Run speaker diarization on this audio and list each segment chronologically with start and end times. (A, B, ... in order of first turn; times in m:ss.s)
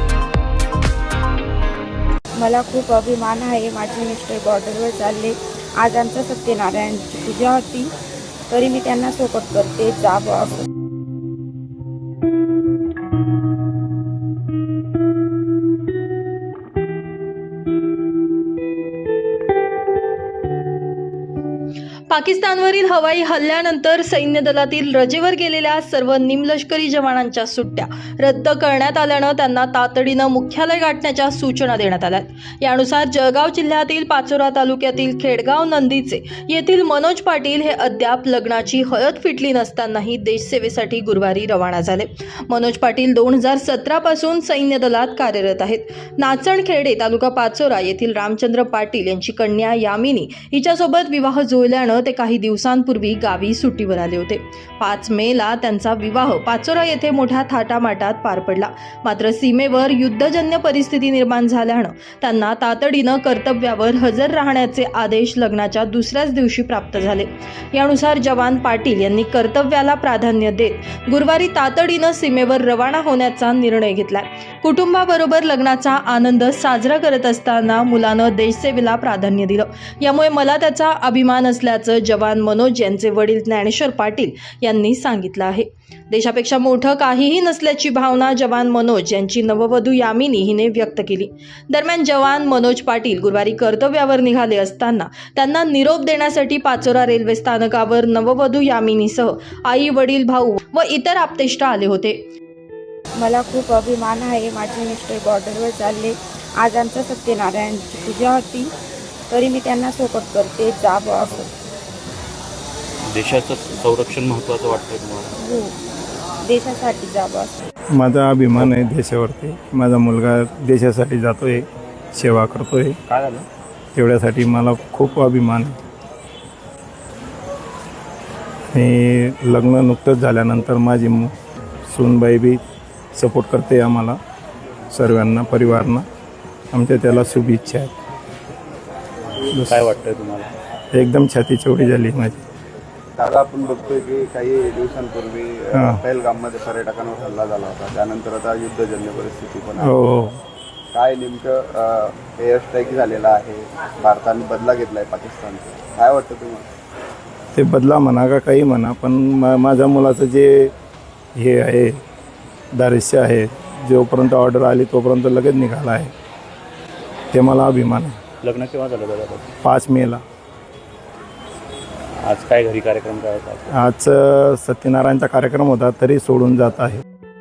0:02.4-0:07.9 A
0:08.5-0:10.6 A
0:22.1-1:42.3 B
1:43.2-1:48.7 A
1:49.3-1:51.5 A
1:53.0-1:55.3 C
1:55.4-1:55.7 A
1:56.4-1:57.6 A
1:57.9-2:03.0 D
2:03.1-2:03.4 C
2:03.9-2:05.8 D
2:08.7-2:11.3 D
2:11.9-2:12.6 D
2:13.2-2:14.2 D
2:14.9-2:16.0 D
2:16.7-2:17.9 D
2:19.5-2:19.8 D
2:19.5-2:20.5 C
2:20.9-2:22.4 D
2:23.2-2:30.0 E
2:25.7-2:26.0 D
2:29.8-2:30.4 D
2:30.9-2:36.7 E
2:37.5-2:40.7 D
2:41.4-2:42.0 D
2:42.8-2:46.1 D
2:47.3-2:48.2 D
2:48.4-2:49.5 C
2:49.6-2:50.2 D
2:52.2-2:53.7 C
2:53.7-2:57.0 D